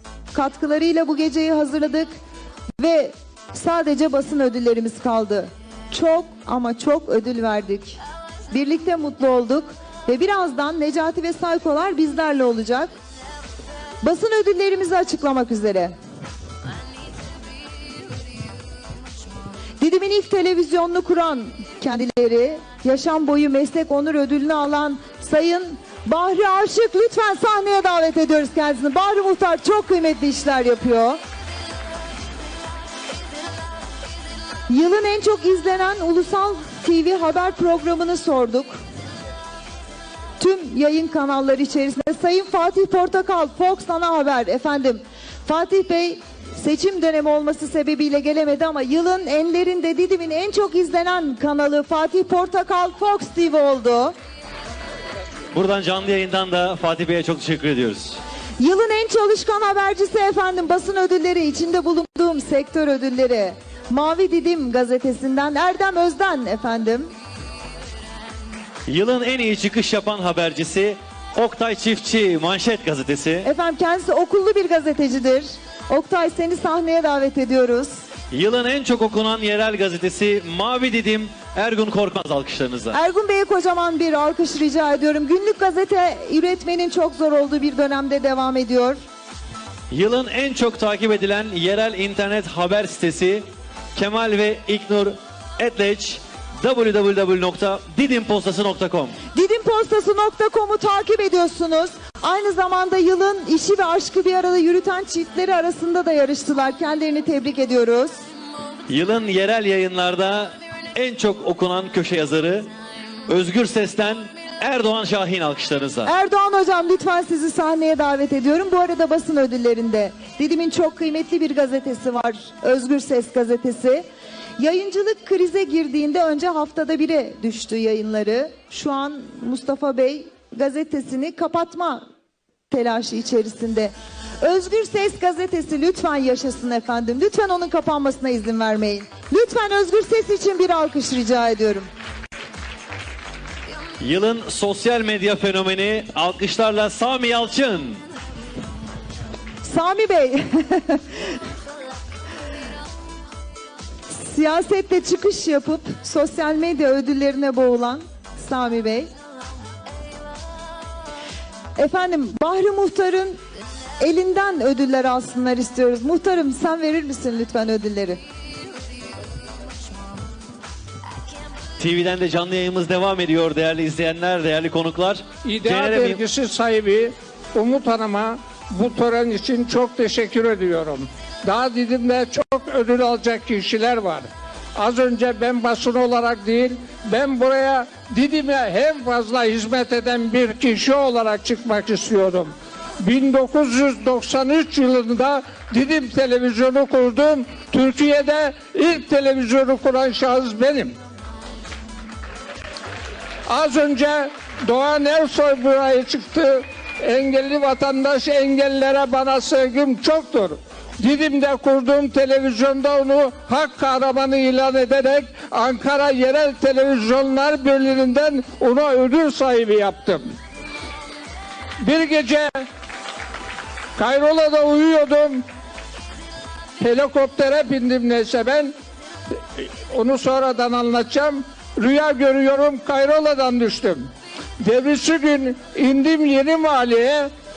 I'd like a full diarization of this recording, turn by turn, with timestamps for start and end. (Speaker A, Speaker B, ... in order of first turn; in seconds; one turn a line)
Speaker A: 0.3-2.1
Speaker A: 2.8-8.0
Speaker A: 8.5-12.9
Speaker A: 14.0-15.9
Speaker A: 19.8-31.2
Speaker A: 34.7-38.8
Speaker A: 40.4-54.1
Speaker B: 55.5-58.2
Speaker A: 58.6-67.1
Speaker B: 68.9-73.5
Speaker A: 73.4-78.0
Speaker B: 78.3-83.0
Speaker A: 82.9-89.0
Speaker B: 89.9-99.2
Speaker A: 99.3-108.2
Speaker B: 108.9-112.7
Speaker B: 113.3-116.1
Speaker A: 116.0-124.1
Speaker A: 124.6-132.0
Speaker A: 132.7-141.9
Speaker B: 144.0-148.0
Speaker A: 149.6-151.3
Speaker A: 154.1-159.1
Speaker A: 161.8-163.4
Speaker A: 164.0-168.2
Speaker B: 171.8-176.2
Speaker C: 175.4-201.0
Speaker C: 203.5-220.3
Speaker C: 221.8-222.7
Speaker C: 224.0-225.4
Speaker C: 226.8-228.7
Speaker C: 229.6-237.3